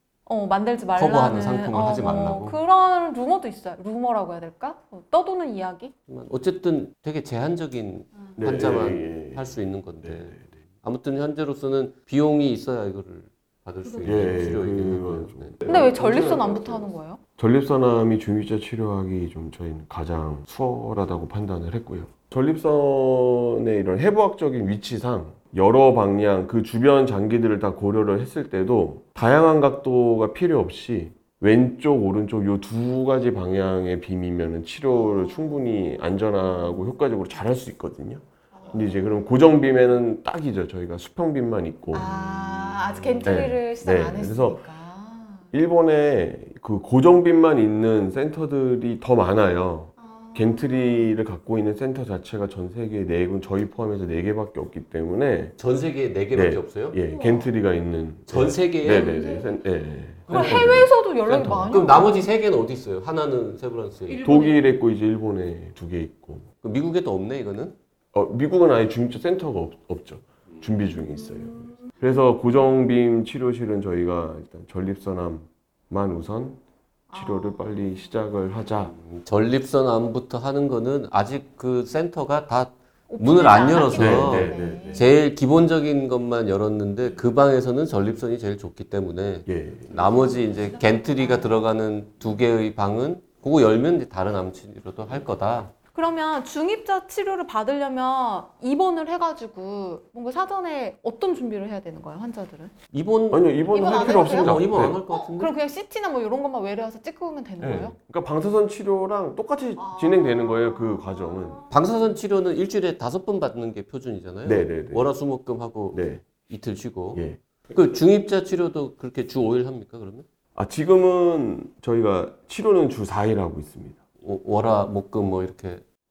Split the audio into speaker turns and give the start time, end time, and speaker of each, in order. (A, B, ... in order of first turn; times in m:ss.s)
0:00.3-0:05.9 A
0:00.9-0:02.6 B
0:06.1-0:15.6 B
0:08.4-0:10.4 C
0:14.0-0:42.1 C
0:15.6-0:17.2 A
0:41.9-0:45.5 A
0:43.2-0:44.6 C
0:45.5-0:55.6 C
0:50.0-0:51.1 A
0:55.6-0:57.0 B
0:56.3-1:02.0 C
0:57.1-0:57.5 A
0:58.3-0:59.2 B
0:58.8-0:59.5 A
1:00.3-1:00.8 B
1:00.3-1:02.2 A
1:01.6-1:04.3 B
1:04.1-1:04.5 A
1:04.2-1:06.5 C
1:06.6-1:07.8 B
1:08.1-1:16.6 C
1:17.1-1:17.6 A
1:17.1-1:18.9 C
1:18.9-1:35.7 B
1:23.1-1:25.1 A
1:23.9-1:25.1 C
1:29.4-1:30.2 C
1:30.6-1:31.4 A
1:35.9-1:42.7 A
1:42.9-1:45.5 B
1:43.3-1:45.0 C
1:43.7-1:48.0 A
1:47.6-1:51.6 C
1:49.8-1:51.6 A
1:51.7-2:00.2 B
1:54.4-1:55.1 C
1:55.9-1:56.2 C
1:57.1-1:57.4 C
2:00.5-2:04.0 C
2:04.2-2:05.8 B